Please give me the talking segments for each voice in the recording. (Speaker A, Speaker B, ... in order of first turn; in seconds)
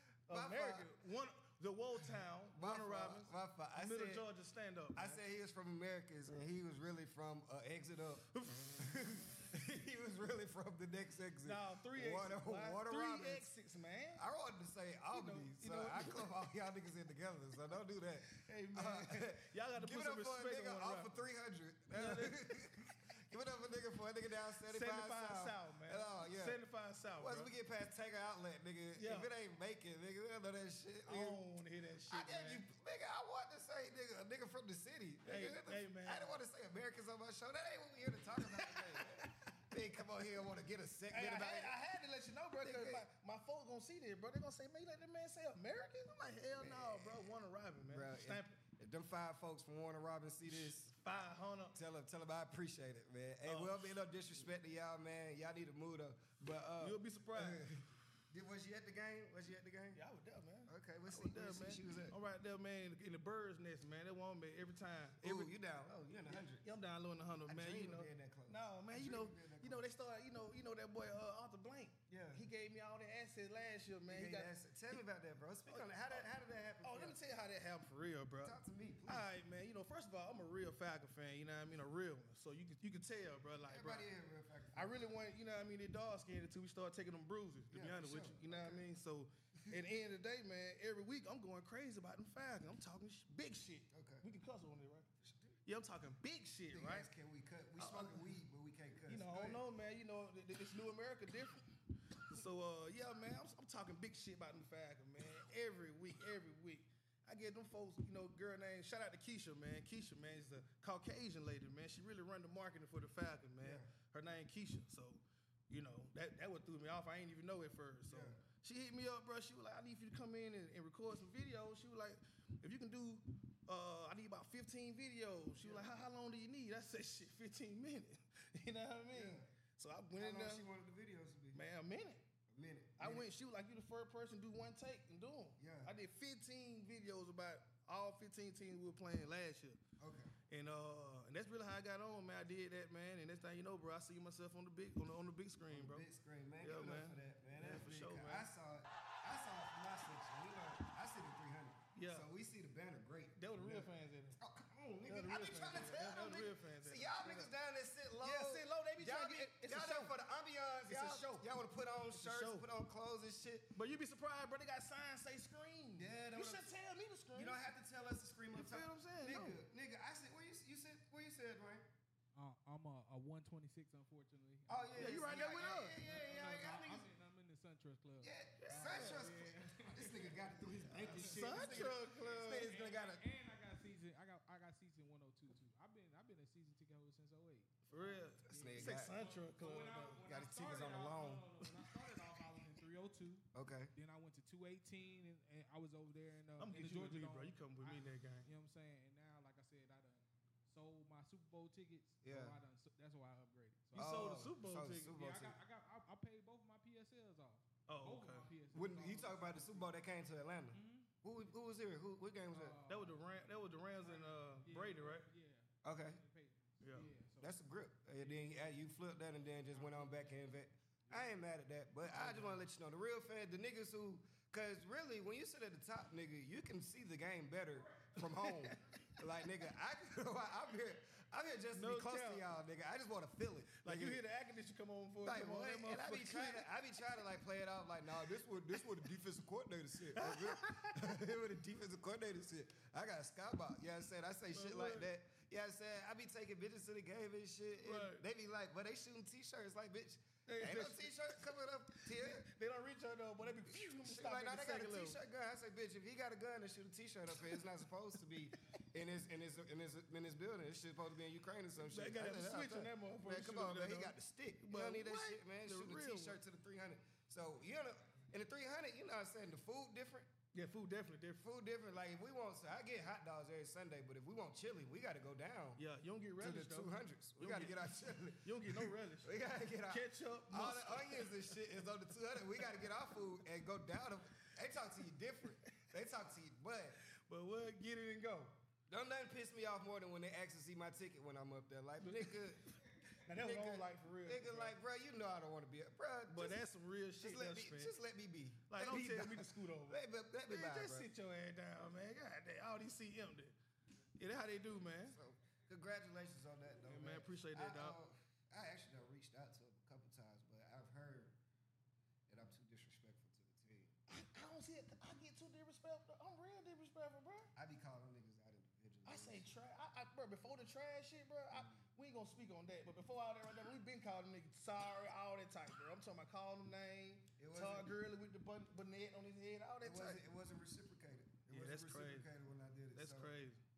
Speaker A: 0.3-5.2, 8.3-9.4, 11.4-14.2, 15.1-16.3, 18.3-21.1, 21.9-22.5, 24.7-27.5, 29.0-29.3, 31.1-32.6, 35.2-36.3, 38.4-39.3, 41.1-48.6, 50.5-51.8, 53.5-53.9, 56.8-57.6, 60.0-65.5, 66.3-74.5, 75.7-76.3, 76.8-78.5, 79.1-84.0, 84.8-95.1, 95.6-97.1, 97.8-98.3, 99.1-101.6, 102.3-130.6, 131.5-132.2, 133.0-139.8, 140.5-146.0, 146.6-148.5, 151.9-152.2, 153.4-154.4, 155.1-157.5, 158.2-160.1, 160.9-161.5, 162.1-162.7, 163.7-167.6, 168.5-169.6, 175.0-176.0, 178.6-179.2, 181.0-182.7, 187.9-190.2, 196.6-198.4, 203.9-205.1, 207.9-208.5, 212.9-215.2, 216.8-217.1, 228.2-228.7, 231.7-232.4, 233.8-236.7, 240.1-241.1, 244.5-245.1, 247.8-248.2, 250.4-251.4, 252.1-255.2, 261.8-266.4, 270.5-271.4, 275.8-277.8, 278.4-279.3, 279.9-281.3, 287.3-288.5, 292.0-292.5, 293.2-294.7, 296.3-297.9, 298.7-303.5, 304.2-305.1, 306.9-307.9, 314.1-317.5, 319.1-330.2, 331.5-332.2, 332.9-333.6
Speaker B: 0.3-0.9, 2.5-4.2, 4.9-13.5, 14.2-26.6, 27.2-31.4, 32.1-41.7, 42.6-43.0, 46.6-47.3, 47.9-50.9, 51.7-60.0, 60.7-62.1, 65.2-66.6, 67.5-69.8, 72.1-72.4, 74.1-77.2, 78.4-79.2, 83.7-84.9, 87.7-88.8, 93.9-94.2, 95.2-95.5, 96.7-99.6, 113.6-113.9, 118.1-118.4, 125.6-126.0, 129.1-129.4, 130.2-131.6, 132.5-133.2, 135.6-135.9, 140.0-140.3, 145.7-163.7, 165.9-166.7, 167.3-171.8, 174.7-177.1, 178.2-183.2, 188.5-189.1, 190.2-191.4, 193.5-193.9, 202.2-202.5, 203.9-205.5, 208.7-212.7, 215.8-216.2, 217.4-234.2, 235.2-252.4, 253.8-270.3, 271.4-275.8, 276.4-286.9, 288.9-292.6, 293.3-296.6, 297.2-301.1, 305.1-311.3, 312.3-313.9, 317.5-319.5, 327.4-327.9, 329.8-333.3
Speaker C: 172.3-204.3, 205.1-209.9, 210.7-211.1, 212.5-217.6, 218.2-218.7, 219.7-220.5, 222.1-222.6